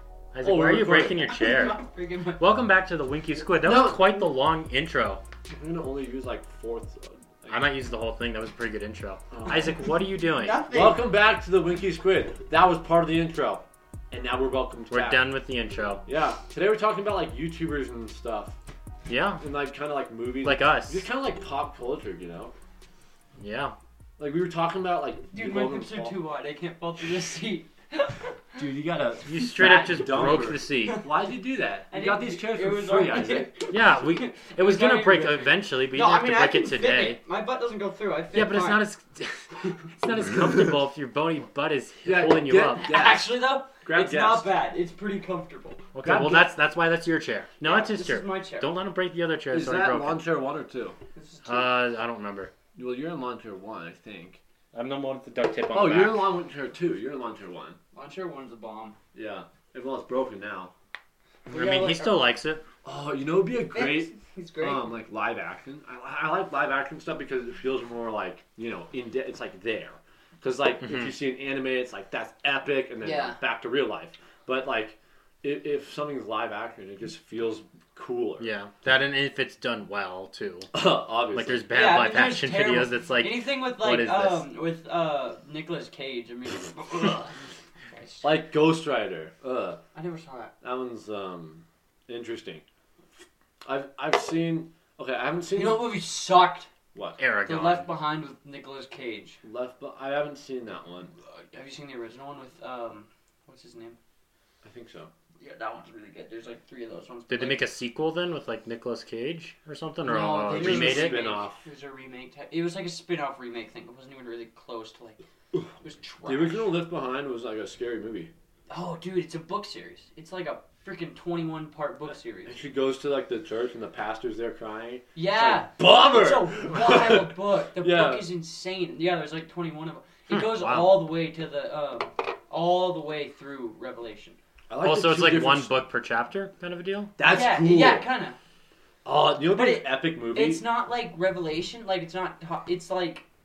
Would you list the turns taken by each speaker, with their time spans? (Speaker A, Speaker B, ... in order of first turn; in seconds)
Speaker A: 0.3-1.8, 2.4-5.2, 7.5-10.7, 14.9-16.0, 19.1-19.4, 20.4-21.0, 23.4-23.8, 29.2-31.0, 33.7-37.2, 38.3-42.8, 45.9-50.1, 51.5-52.5, 54.7-56.3, 61.5-62.6, 70.8-71.1, 78.4-80.7, 81.3-84.5, 97.2-97.8, 107.3-111.3, 130.3-131.0, 134.8-137.1
Speaker B: 0.4-1.3, 3.5-4.3, 5.5-7.7, 9.3-9.7, 10.7-15.3, 16.1-18.6, 19.4-22.5, 24.2-26.2, 28.6-33.6, 40.3-40.7, 42.0-44.5, 46.0-46.5, 49.5-51.0, 52.8-54.4, 55.7-57.8, 59.1-60.7, 62.8-78.5, 80.7-81.6, 88.2-89.8, 90.6-92.6, 93.6-95.9, 96.9-97.2, 99.4-101.1, 104.6-105.1, 110.5-111.6, 116.2-118.3, 122.5-128.3, 134.7-135.7, 137.2-138.1, 139.0-140.6
Speaker C: 1.2-2.5, 10.2-11.0, 25.3-28.6, 31.9-38.8, 42.8-45.8, 47.6-48.7, 51.1-51.8, 57.9-59.0, 61.5-62.2, 63.7-64.9, 73.0-73.4, 81.7-87.4, 87.9-88.2, 89.9-90.5, 95.5-96.7, 97.4-99.4, 101.2-104.0, 105.4-107.7, 110.0-115.2, 115.8-116.6, 118.7-122.5, 125.2-134.4, 137.2-138.4, 139.5-143.2